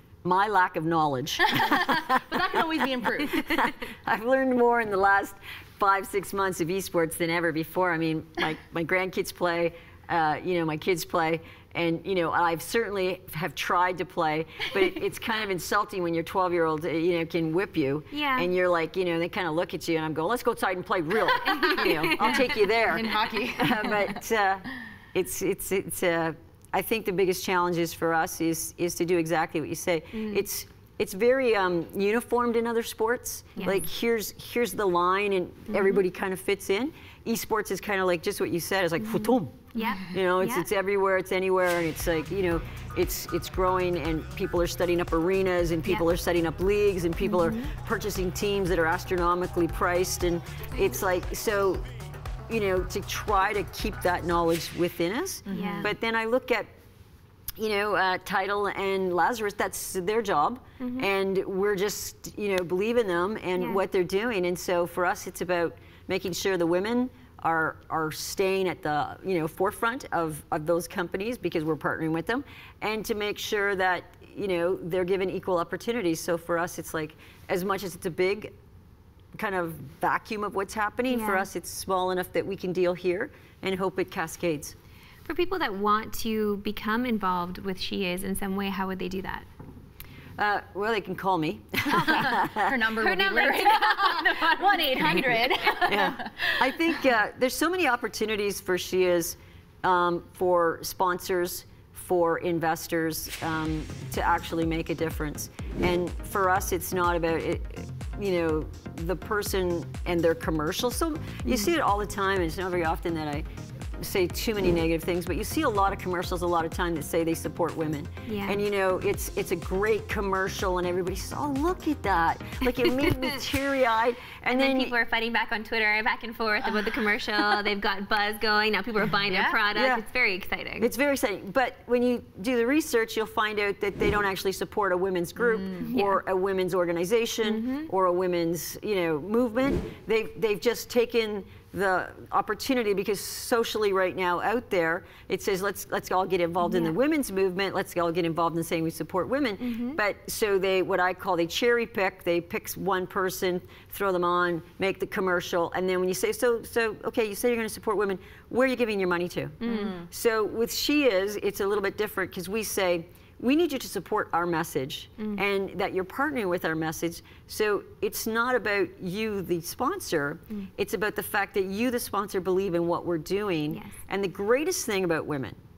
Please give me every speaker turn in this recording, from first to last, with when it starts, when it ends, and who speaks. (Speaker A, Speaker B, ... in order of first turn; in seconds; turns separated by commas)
Speaker A: 0.2-2.2, Speaker B: 1.4-3.5, Speaker A: 3.2-51.9, Speaker C: 18.1-18.5, Speaker C: 21.4-23.1, Speaker B: 22.8-24.2, Speaker C: 30.1-30.4, Speaker C: 33.5-33.8, Speaker C: 35.7-36.0, Speaker C: 39.0-40.7, Speaker C: 47.2-47.7, Speaker A: 52.5-56.7, Speaker B: 55.5-55.9, Speaker C: 55.5-55.9, Speaker A: 57.6-78.5, Speaker C: 60.8-61.1, Speaker C: 63.6-63.8, Speaker A: 79.3-84.7, Speaker C: 81.1-81.5, Speaker C: 85.2-89.5, Speaker A: 90.4-92.7, Speaker B: 92.2-96.8, Speaker C: 92.9-95.3, Speaker A: 95.8-125.0, Speaker C: 111.5-111.7, Speaker C: 118.2-118.6, Speaker C: 124.5-130.9, Speaker B: 129.2-129.6, Speaker A: 129.7-130.1, Speaker A: 130.8-175.6, Speaker B: 135.4-135.9, Speaker C: 135.9-136.2, Speaker C: 137.4-137.9, Speaker C: 146.6-146.9, Speaker C: 149.6-150.0, Speaker C: 159.6-159.9, Speaker B: 159.7-160.1